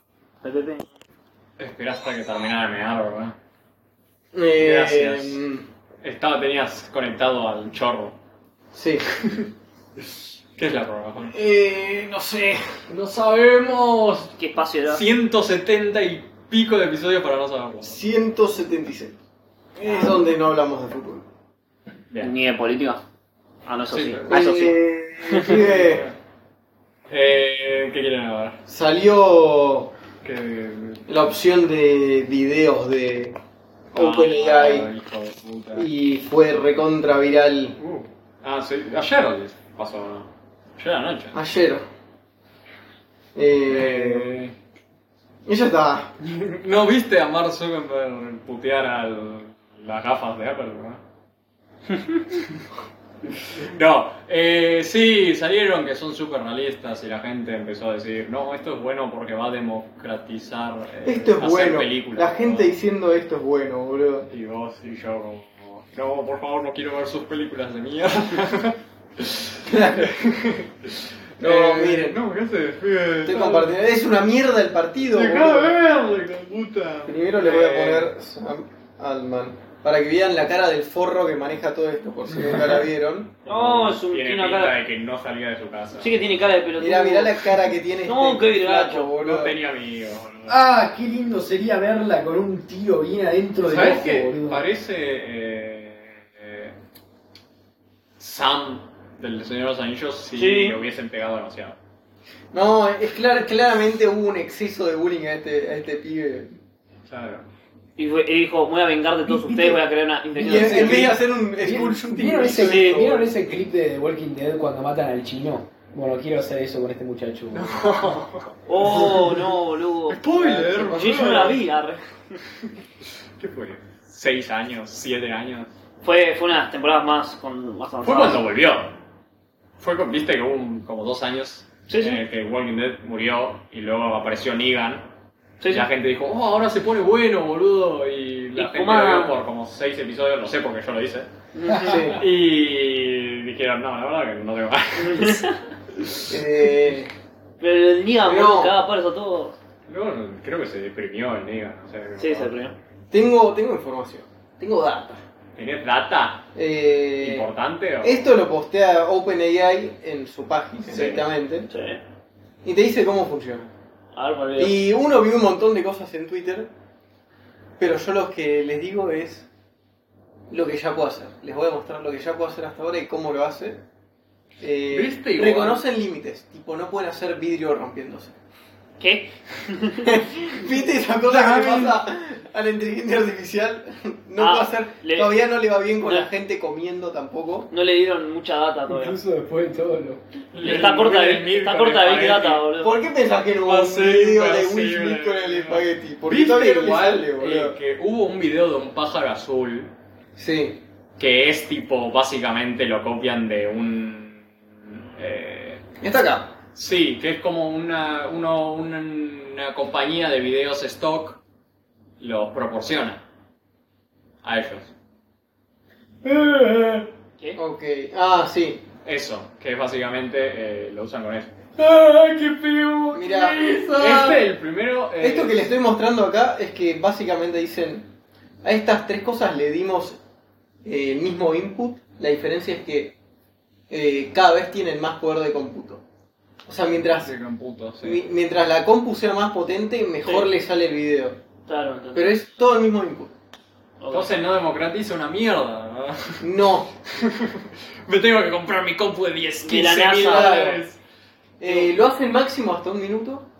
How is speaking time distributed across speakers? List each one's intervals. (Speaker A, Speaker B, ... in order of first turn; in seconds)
Speaker A: 0.4-0.8, 14.4-15.0, 19.8-20.2, 22.2-23.0, 23.6-24.8, 25.3-25.6, 83.5-84.7, 86.0-89.1, 100.3-100.8, 108.0-111.2, 118.7-122.0, 126.0-128.4, 131.9-132.2, 135.6-135.8, 138.6-139.3, 141.5-142.1, 144.9-145.6, 147.6-149.5, 152.2-152.7, 160.9-162.0, 164.1-164.8, 179.0-180.1, 184.4-185.3, 186.0-186.3, 187.7-189.2, 190.6-193.0, 241.7-242.3, 244.0-244.3, 249.7-250.8
Speaker B: 1.6-3.4, 4.6-5.4, 6.0-8.2, 10.6-11.3, 12.9-18.0, 23.9-24.2, 25.4-26.1, 27.1-28.6, 30.2-31.0, 33.9-35.9, 37.8-41.4, 43.7-44.5, 46.2-51.0, 53.4-62.8, 64.3-73.8, 75.0-78.1, 83.5-86.2, 89.2-90.5, 93.6-96.7, 98.2-101.8, 107.1-107.5, 117.5-118.5, 120.1-121.6, 123.4-125.7, 128.0-128.9, 129.8-135.1, 135.7-145.4, 146.0-146.4, 149.9-152.6, 155.6-156.5, 157.2-158.3, 160.9-161.3, 174.9-175.8, 181.3-182.0, 190.5-192.7, 193.7-199.9, 201.2-204.5, 205.2-205.9, 206.7-211.4, 212.2-213.2, 214.4-214.9, 219.0-221.6, 223.9-225.7, 237.2-238.2, 244.1-246.5, 247.1-251.0
Speaker C: 4.3-5.7, 8.7-9.1, 11.3-12.8, 17.8-19.2, 19.8-21.2, 24.2-26.1, 28.7-29.9, 31.1-33.4, 33.9-34.9, 35.7-37.8, 41.3-41.9, 43.3-44.4, 45.5-46.1, 61.0-64.3, 69.6-70.6, 71.4-72.2, 73.2-75.8, 77.0-83.4, 86.8-89.6, 102.5-106.6, 110.4-113.3, 118.8-119.2, 120.5-121.6, 141.8-142.2, 146.3-147.1, 148.2-148.7, 153.1-155.1, 156.5-157.5, 158.0-161.7, 162.6-163.7, 164.6-166.7, 167.8-169.5, 170.5-173.8, 174.6-178.3, 180.0-187.7, 192.8-197.8, 200.3-200.8, 206.0-206.5, 217.6-218.8, 223.1-224.4, 225.2-228.1, 228.6-230.2, 230.8-233.2, 233.9-236.0, 236.7-237.3, 238.0-241.4, 242.1-243.3, 246.4-246.9, 250.2-250.8, 251.6-253.4
Speaker D: 90.5-94.6, 109.3-109.8, 110.4-117.9, 188.9-190.2, 216.2-217.1, 221.8-223.9